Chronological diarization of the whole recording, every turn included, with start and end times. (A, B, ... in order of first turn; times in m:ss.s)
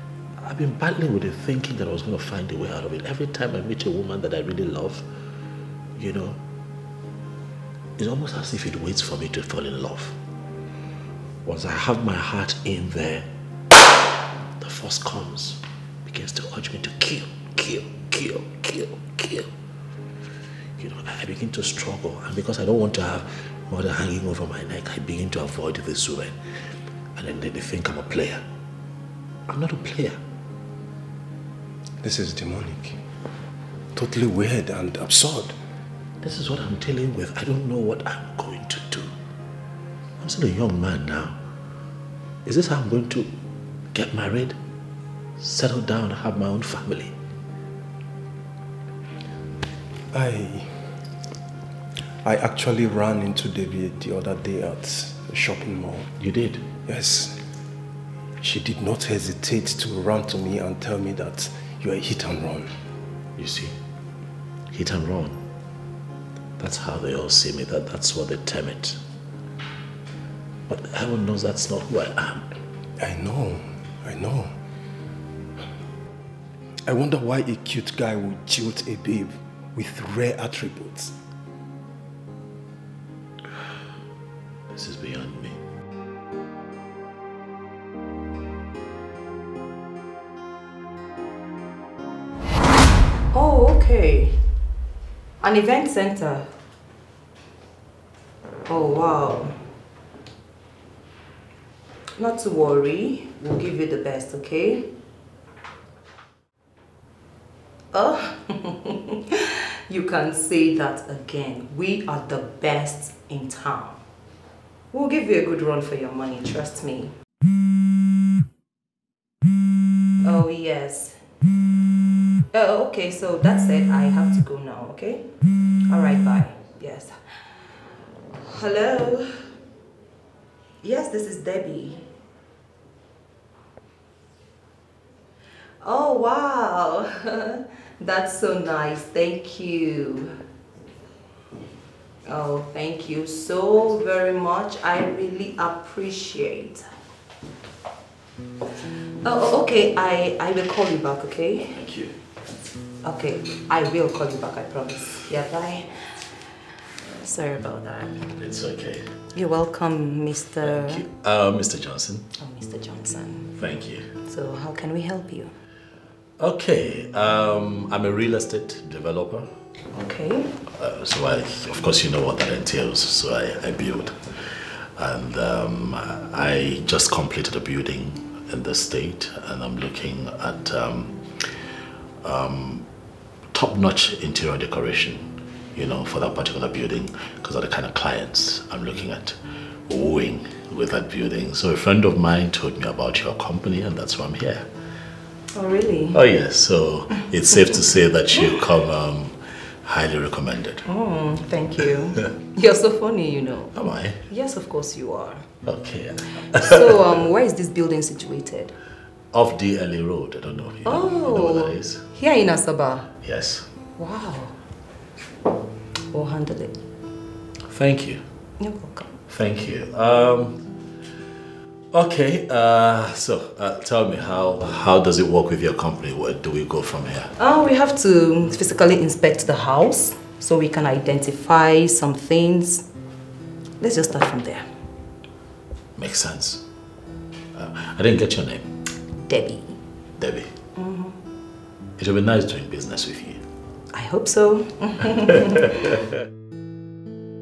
0:00.4-0:05.1 A
0:06.0-0:06.4 A
0:08.0-0:10.2 A
0:11.4-0:13.3 A
0:14.6-0:19.5 A
0:20.8-0:28.4 A
0:29.5-0:30.2 A
0:32.0-0:33.0 B
0:34.0-0:35.6 B
0:36.2-0:39.1 A
0:40.2-0:41.4 A
0:42.4-0:43.3 A
0:43.9-0:44.6 A
0:45.4-0:47.2 A
0:50.1-0:51.0 B
0:52.2-0:56.1 B
0:56.2-0:56.7 A
0:56.9-0:57.4 B
0:58.4-1:02.7 B
1:03.4-1:03.8 A
1:04.7-1:05.4 A
1:06.6-1:09.0 A
1:10.7-1:12.5 A
1:13.0-1:14.5 B
1:16.9-1:21.2 B
1:24.7-1:25.6 A
1:33.3-1:34.4 C
1:35.4-1:36.5 C
1:38.7-1:39.6 C
1:42.2-1:44.9 C
1:47.9-1:54.0 C
1:54.9-1:57.1 C
2:00.2-2:01.2 C
2:02.5-2:05.3 C
2:05.9-2:07.2 C
2:08.4-2:09.4 C
2:10.8-2:12.0 C
2:15.8-2:20.4 C
2:22.2-2:26.9 C
2:28.9-2:31.8 C
2:31.8-2:32.2 A
2:33.0-2:36.1 C
2:37.2-2:38.2 C
2:38.4-2:39.2 A
2:39.3-2:41.1 C
2:40.6-2:42.3 A
2:42.4-2:43.5 C
2:43.6-2:44.1 A
2:44.2-2:45.5 C
2:46.4-2:49.5 A
2:49.9-2:50.6 C
2:50.7-3:01.7 A
3:02.2-3:02.9 A
3:03.5-3:14.7 A
3:15.5-3:16.2 C
3:16.1-3:20.9 A
3:20.9-3:25.5 C
3:23.7-3:24.2 A
3:25.6-3:27.2 A
3:26.4-3:28.8 C
3:29.3-3:32.1 A
3:30.8-3:33.1 C
3:33.2-3:33.7 A
3:34.0-3:34.6 C
3:36.1-3:36.8 C
3:37.6-3:38.2 A
3:38.6-3:39.1 C
3:39.3-3:40.6 A
3:41.9-3:47.3 A
3:47.4-3:52.9 C
3:53.8-3:54.7 C
3:56.0-3:56.7 A
3:57.5-3:58.7 A
3:59.2-3:59.8 C
4:00.2-4:00.5 A
4:00.8-4:01.2 C
4:02.0-4:03.4 A
4:03.9-4:05.9 C
4:05.3-4:06.0 A